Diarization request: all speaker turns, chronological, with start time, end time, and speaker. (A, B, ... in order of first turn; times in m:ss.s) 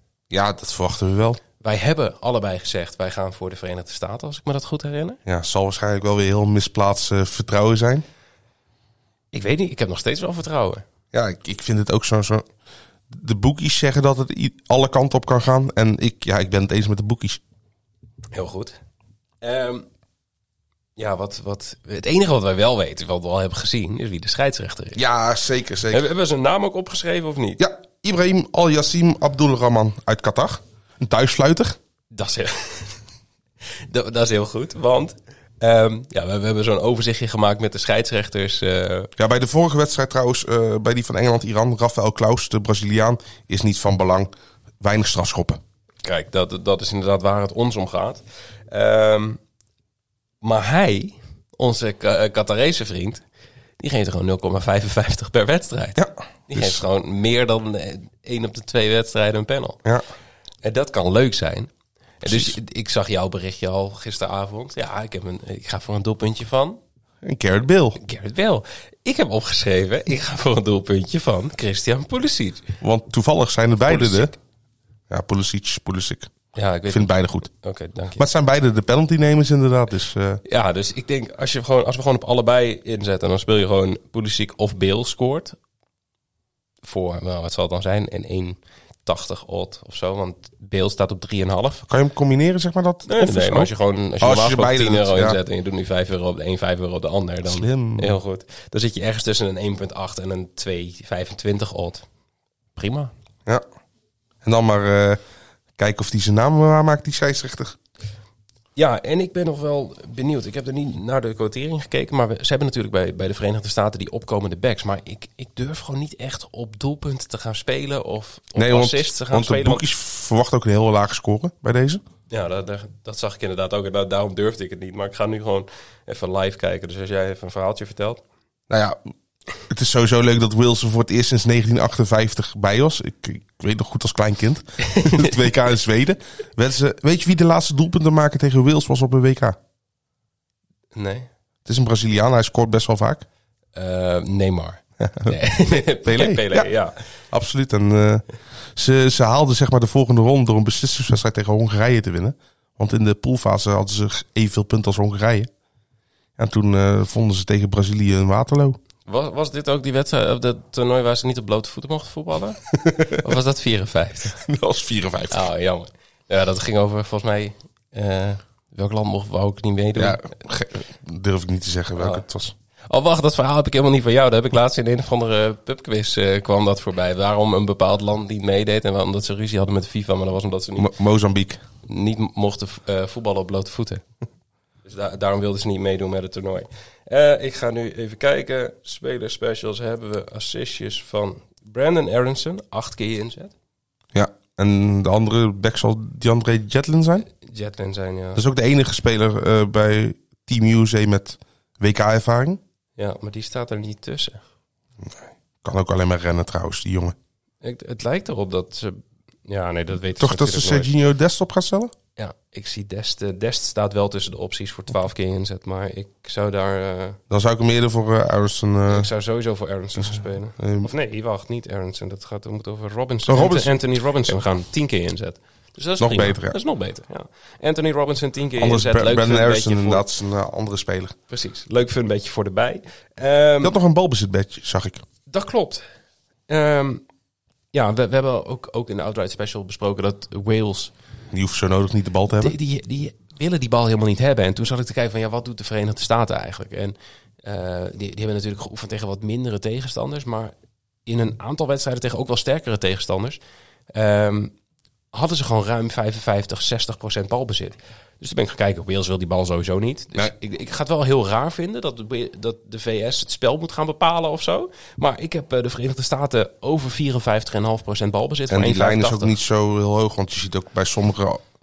0:00.3-0:01.4 A
0:01.6-0:05.2 B
0:05.2-0:08.0 A
0:09.3-0:10.8 B
0:11.1-0:12.4 A
0:13.1-0:17.4 A
0:18.3-0:18.8 B
0:19.4-0:19.8 B
0:21.0-0:25.0 B
0:25.0-0:26.1 A
0:25.9-0:27.6 B
0:27.6-0:31.8 A
0:32.1-0:33.0 B
0:33.9-0:39.1 B
0:39.2-0:45.6 A
0:46.0-0:49.4 B
0:50.4-0:53.2 B
0:53.8-0:59.8 B
0:56.0-0:56.8 A
1:00.6-1:01.7 B
1:02.2-1:06.8 B
1:02.2-1:02.6 A
1:07.2-1:08.0 A
1:08.0-1:12.6 B
1:12.8-1:14.3 A
1:13.8-1:14.3 B
1:15.1-1:16.3 A
1:16.5-1:18.2 B
1:16.9-1:17.5 A
1:18.2-1:20.4 A
1:20.4-1:25.6 B
1:26.8-1:31.9 B
1:31.9-1:35.4 A
1:33.1-1:42.0 B
1:37.4-1:38.2 A
1:42.7-1:43.1 B
1:44.4-1:45.2 A
1:45.8-1:47.8 A
1:48.8-1:59.8 B
1:58.5-2:02.0 A
2:02.3-2:08.2 B
2:08.7-2:09.0 A
2:09.6-2:19.6 A
2:14.9-2:15.3 B
2:20.9-2:21.3 B
2:21.6-2:23.2 A
2:23.7-2:27.0 B
2:25.0-2:25.4 A
2:26.0-2:26.7 A
2:27.3-2:28.2 A
2:28.8-2:35.5 A
2:36.4-2:38.8 A
2:39.0-2:44.4 B
2:42.8-2:43.2 A
2:44.4-2:45.5 A
2:45.3-2:50.2 B
2:50.0-2:52.5 A
2:52.0-2:52.2 B
2:52.9-3:00.9 B
3:00.8-3:01.6 A
3:01.8-3:04.0 B
3:04.8-3:13.5 B
3:14.1-3:17.3 A
3:17.3-3:18.4 B
3:18.3-3:22.6 A
3:23.0-3:24.4 B
3:25.0-3:27.1 A
3:27.6-3:30.9 B
3:30.2-3:31.9 A
3:32.2-3:37.2 B
3:37.3-3:39.1 A
3:38.9-3:50.0 B
3:40.0-3:40.9 A
3:43.2-3:43.7 A
3:46.0-3:46.6 A
3:48.6-3:51.1 A
3:51.3-3:53.7 B
3:53.6-3:55.0 A
3:55.3-3:55.8 B
3:56.5-3:57.0 B
3:57.7-4:00.9 B
4:01.3-4:02.5 A
4:02.4-4:10.5 B
4:11.0-4:14.5 B
4:15.1-4:29.4 B
4:28.5-4:31.4 A